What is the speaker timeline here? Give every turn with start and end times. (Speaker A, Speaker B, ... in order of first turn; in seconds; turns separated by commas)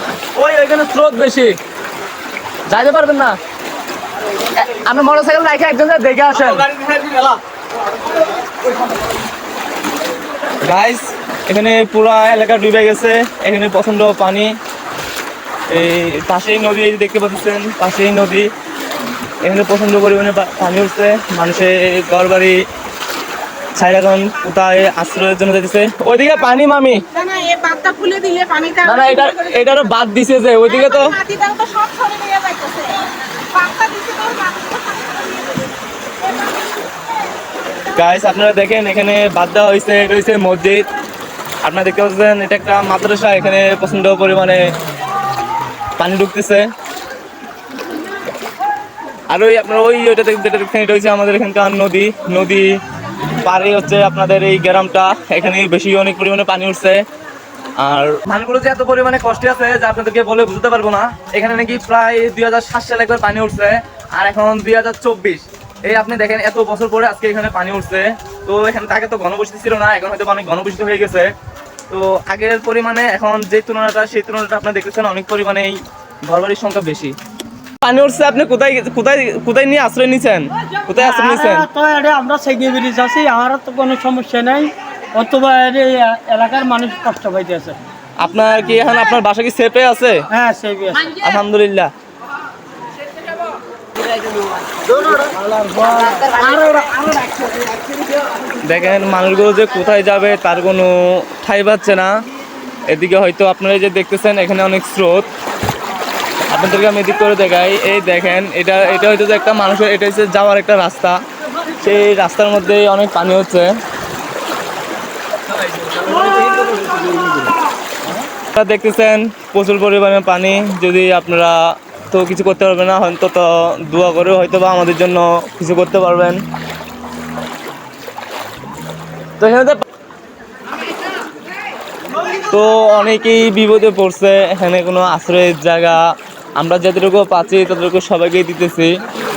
Speaker A: 0.4-1.6, Speaker A: 2.7-3.4, Speaker A: 4.6-7.3, Speaker A: 10.6-14.5, Speaker A: 15.7-18.5, Speaker A: 19.4-22.6, Speaker A: 23.8-27.1, Speaker B: 27.1-29.9, Speaker A: 28.8-31.2, Speaker B: 30.6-35.7, Speaker A: 38.0-40.8, Speaker A: 41.6-44.6, Speaker A: 46.0-46.7, Speaker A: 49.3-52.8, Speaker A: 53.4-57.0, Speaker A: 57.8-71.3, Speaker A: 71.9-77.2, Speaker A: 77.8-81.7, Speaker C: 81.0-87.8, Speaker A: 88.2-90.2, Speaker C: 90.3-91.1, Speaker A: 91.1-91.9, Speaker C: 94.9-97.1, Speaker A: 98.6-102.1, Speaker A: 102.9-105.3, Speaker A: 106.5-111.2, Speaker A: 111.8-113.7, Speaker A: 115.9-116.5, Speaker A: 118.5-121.6, Speaker A: 122.1-126.4, Speaker A: 129.4-129.8, Speaker A: 132.5-136.0, Speaker A: 136.6-138.9